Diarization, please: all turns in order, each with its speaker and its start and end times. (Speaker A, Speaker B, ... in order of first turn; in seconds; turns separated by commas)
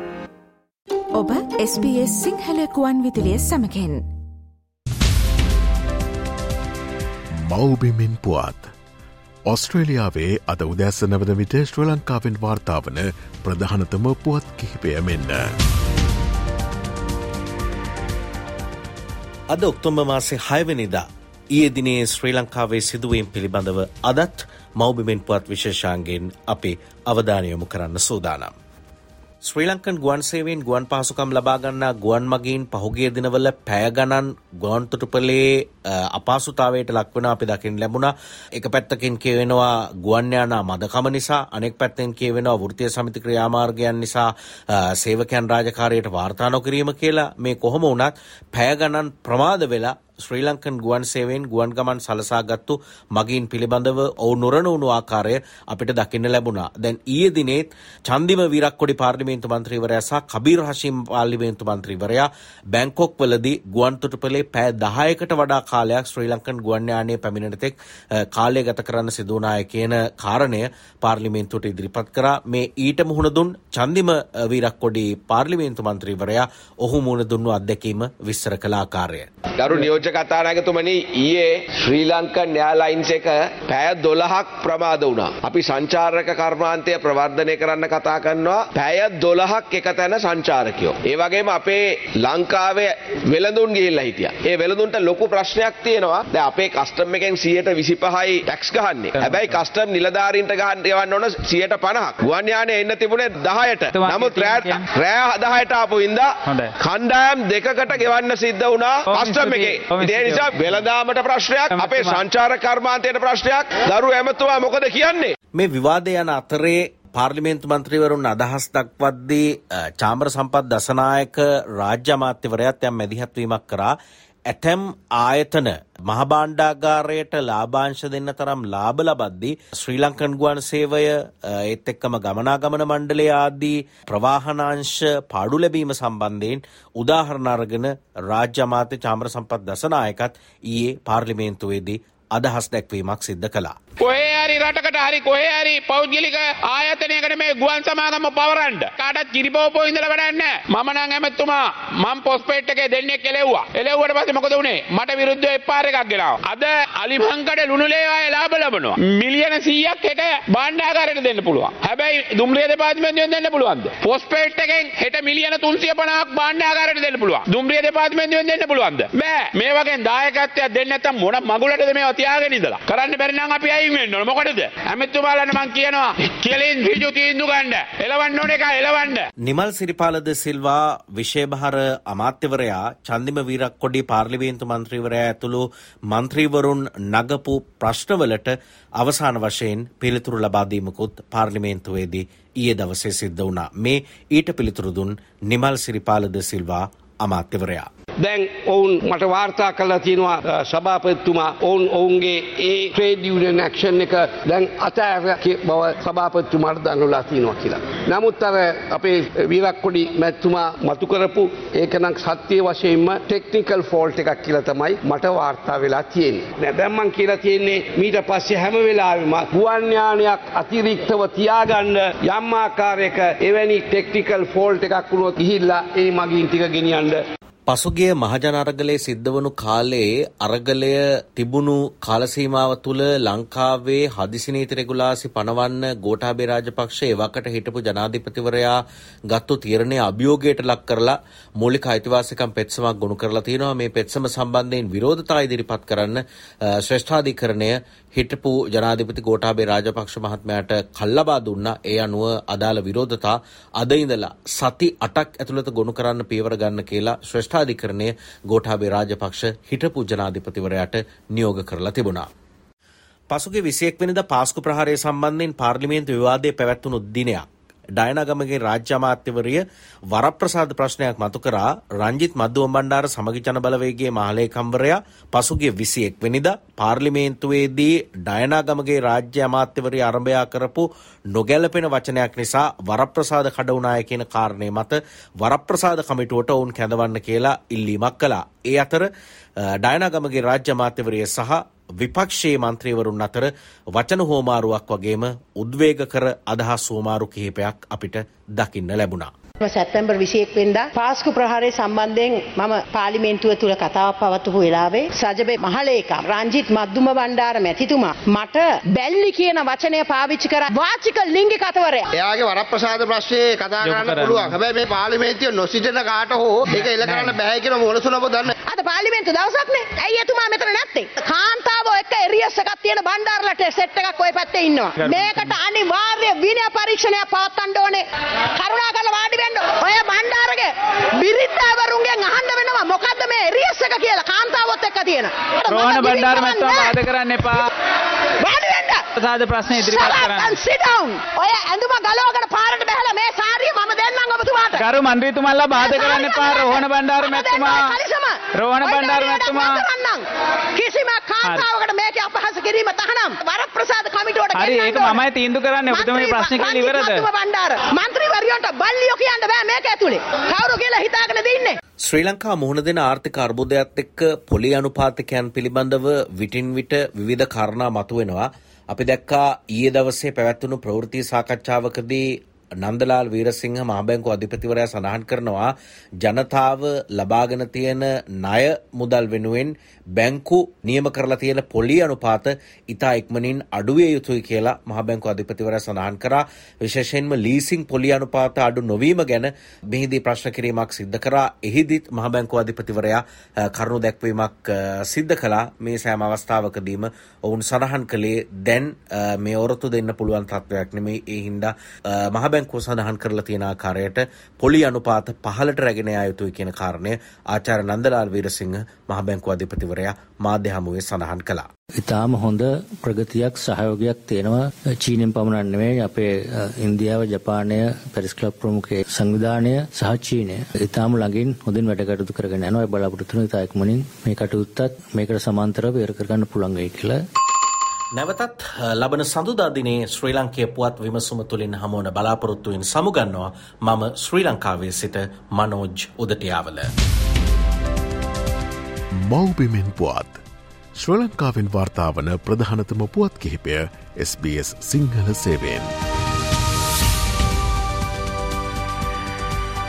Speaker A: 1.1-4.0, Speaker B: 7.4-8.7, Speaker B: 9.4-15.5, Speaker C: 19.5-21.0, Speaker C: 21.5-28.5, Speaker C: 29.4-79.3, Speaker D: 79.6-106.3, Speaker E: 99.1-99.5, Speaker E: 103.9-104.9, Speaker E: 106.5-106.7, Speaker D: 106.8-115.3, Speaker E: 109.1-110.9, Speaker E: 111.6-112.2, Speaker C: 115.5-123.9, Speaker C: 124.5-143.7, Speaker F: 144.0-179.2, Speaker C: 179.4-197.9, Speaker G: 198.2-227.2, Speaker C: 227.7-262.3, Speaker C: 263.3-267.4, Speaker C: 268.0-289.1, Speaker C: 289.7-299.3, Speaker H: 299.6-312.1, Speaker I: 312.1-318.5, Speaker E: 313.8-314.6, Speaker E: 316.7-317.4, Speaker H: 318.6-328.0, Speaker E: 325.0-325.6, Speaker H: 328.6-337.0, Speaker E: 335.7-337.7, Speaker H: 338.4-339.0, Speaker E: 339.1-340.6, Speaker H: 339.8-344.9, Speaker E: 344.7-347.9, Speaker H: 345.7-355.2, Speaker E: 348.5-349.9, Speaker E: 354.5-357.3, Speaker H: 355.8-361.8, Speaker C: 362.0-411.6, Speaker J: 412.1-427.2, Speaker C: 428.1-436.9, Speaker B: 439.1-440.4, Speaker B: 440.9-445.9